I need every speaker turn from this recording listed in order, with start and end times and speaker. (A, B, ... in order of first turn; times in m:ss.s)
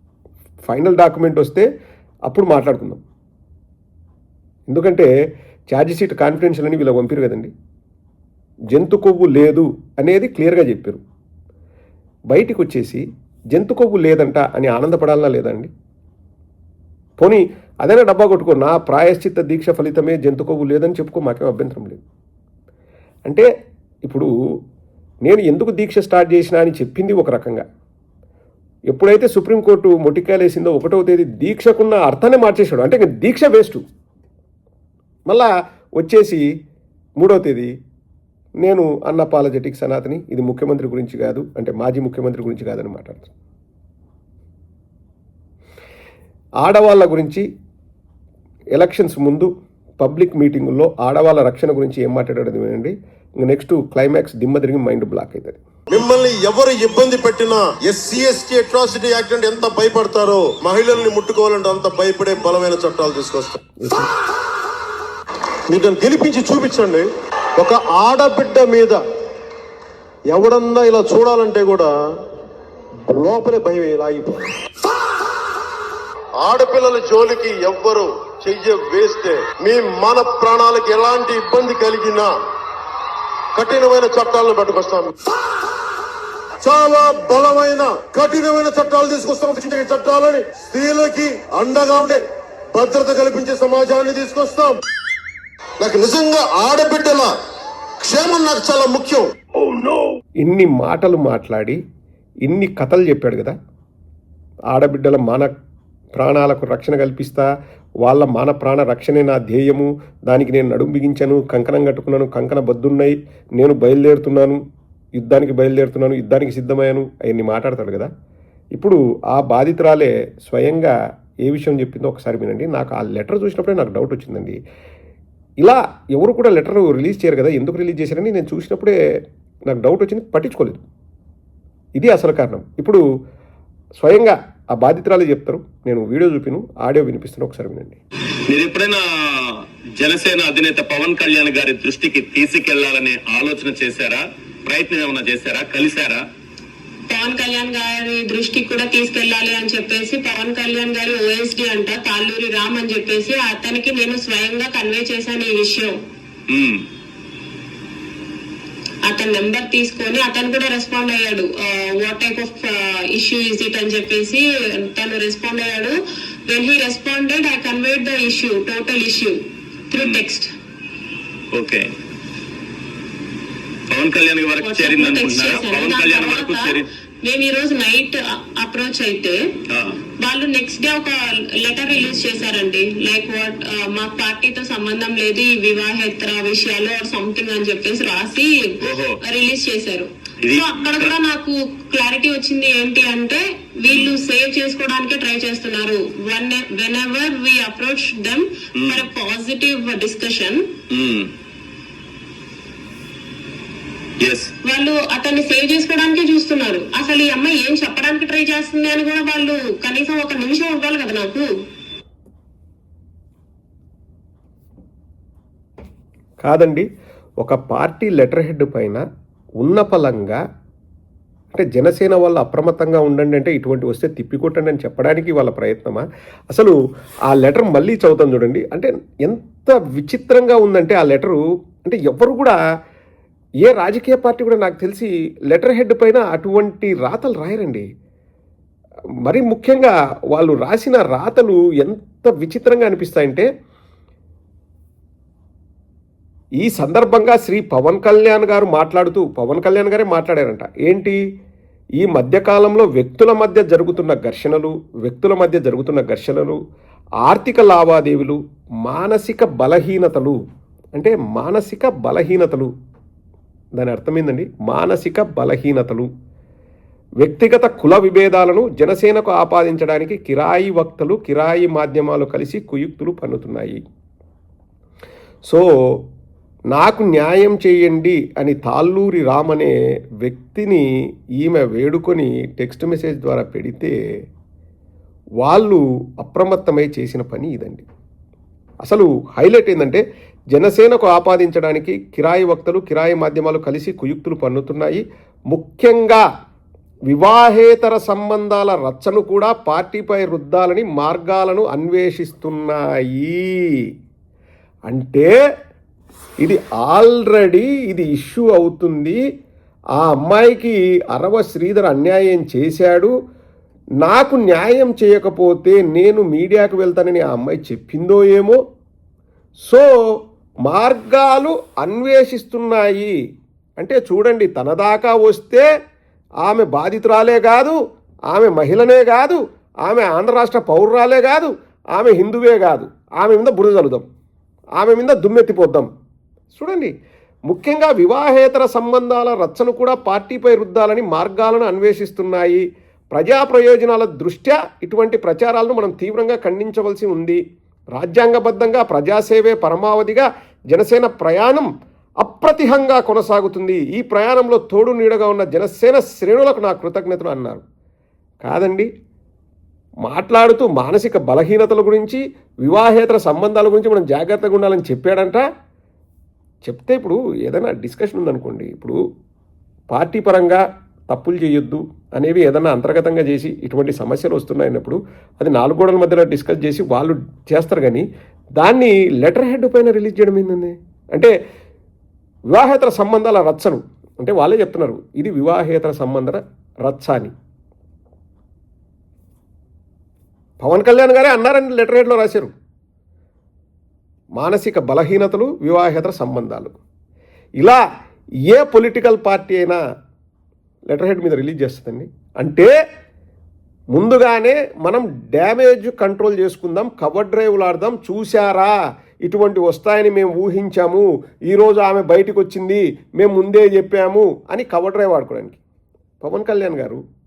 0:00.6-0:01.7 A
0:02.3-0:03.0 A
0:04.7-0:05.1 A
0:05.7-0:07.5 A
0:08.7-0:11.0 A
0:12.3-0:15.7 A
0:17.2-0:22.0 A
0:24.0-0:24.3 A
0:25.2-0:27.6 A
0:28.9-0:33.8 A
0:35.3-0:36.4 A
0:37.2-0:37.7 A
0:38.6-0:43.3 A
0:46.6-0:47.4 A
0:48.7-0:55.6 A
0:55.9-1:03.6 B
1:03.8-1:04.1 A
1:05.7-1:09.0 B
1:10.3-1:12.3 B
1:13.1-1:14.5 B
1:16.4-1:22.3 B
1:23.5-1:25.2 B
1:26.6-1:34.8 B
1:35.8-1:37.4 B
1:38.0-1:39.9 B
1:40.4-1:41.8 A
1:42.4-1:43.5 A
1:44.7-1:45.5 A
1:46.1-1:47.5 A
1:48.0-1:54.6 A
1:55.2-1:58.1 A
1:58.7-2:04.6 A
2:05.6-2:09.0 A
2:09.7-2:10.8 A
2:12.0-2:13.0 A
2:14.0-2:18.0 A
2:18.5-2:26.2 C
2:27.1-2:36.0 D
2:36.5-2:36.8 C
2:39.0-2:49.4 D
2:49.9-2:50.5 D
2:50.0-2:50.2 C
2:51.5-2:51.9 C
2:53.9-2:56.8 C
2:54.6-2:59.6 D
2:59.7-3:00.0 C
3:00.2-3:20.7 D
3:08.8-3:09.2 C
3:10.4-3:11.1 C
3:20.9-3:21.3 C
3:24.2-3:24.5 C
3:24.6-3:31.5 D
3:36.4-3:36.8 A
3:37.4-3:39.0 A
3:39.6-3:40.4 A
3:41.5-3:46.7 A
3:47.3-3:52.6 A
3:53.6-3:57.8 A
3:59.2-4:03.5 A
4:06.6-4:11.2 A
4:12.0-4:16.6 A
4:17.2-4:20.4 A
4:20.9-4:22.7 A
4:23.8-4:26.1 A
4:27.2-4:33.8 A
4:36.7-4:40.8 A
4:41.4-4:43.9 A
4:45.4-4:47.8 A
4:48.8-4:50.0 A
4:50.5-4:56.2 A
4:57.1-5:03.6 A
5:04.9-5:05.4 A
5:06.4-5:09.2 A
5:10.0-5:13.1 A
5:14.0-5:18.6 A
5:20.6-5:23.1 A
5:23.8-5:25.6 A
5:26.4-5:27.8 A
5:28.3-5:34.0 A
5:34.8-5:35.9 A
5:36.5-5:36.9 A
5:37.5-5:47.4 A
5:47.9-5:51.7 A
5:52.2-5:57.6 A
5:58.4-5:58.9 A
6:00.0-6:05.4 A
6:06.6-6:09.0 A
6:09.9-6:18.0 A
6:18.6-6:21.3 A
6:22.5-6:27.3 A
6:30.6-6:32.5 A
6:34.4-6:36.7 A
6:38.5-6:39.8 A
6:40.9-6:42.7 A
6:43.9-6:55.6 A
6:56.2-6:57.0 A